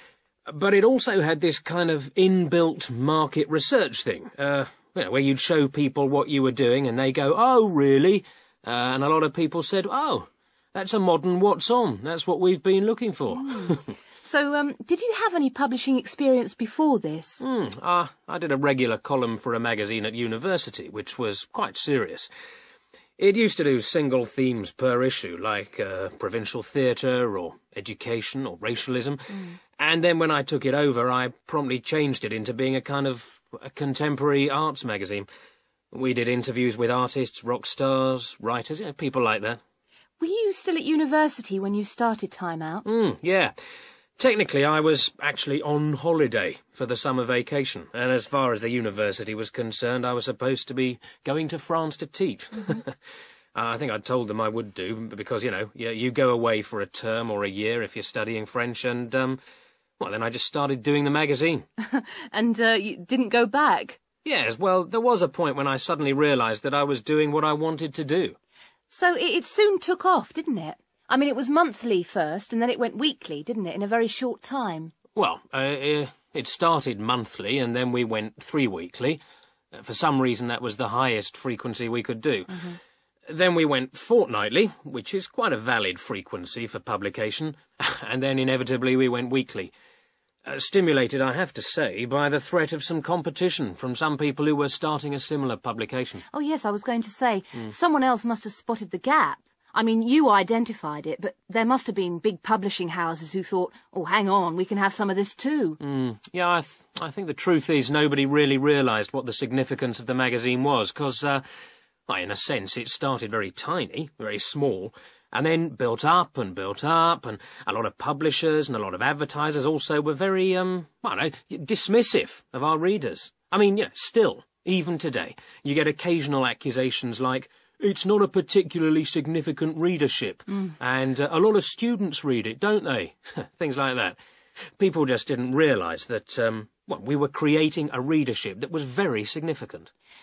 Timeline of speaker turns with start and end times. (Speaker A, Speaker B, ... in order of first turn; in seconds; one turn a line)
Speaker A: 0.5-13.8
Speaker B: 13.4-17.4
Speaker A: 17.4-22.3
Speaker A: 23.2-35.2
Speaker A: 35.9-39.6
Speaker B: 40.2-42.8
Speaker A: 42.8-43.5
Speaker A: 44.2-53.0
Speaker A: 53.5-59.4
Speaker A: 60.0-61.6
Speaker B: 61.8-64.0
Speaker A: 64.2-68.3
Speaker B: 68.9-74.9
Speaker A: 75.2-79.2
Speaker A: 79.7-82.7
Speaker A: 83.3-89.7
Speaker A: 90.5-96.2
Speaker B: 96.3-105.8
Speaker A: 105.8-111.4
Speaker A: 112.1-134.2
Speaker A: 134.8-139.9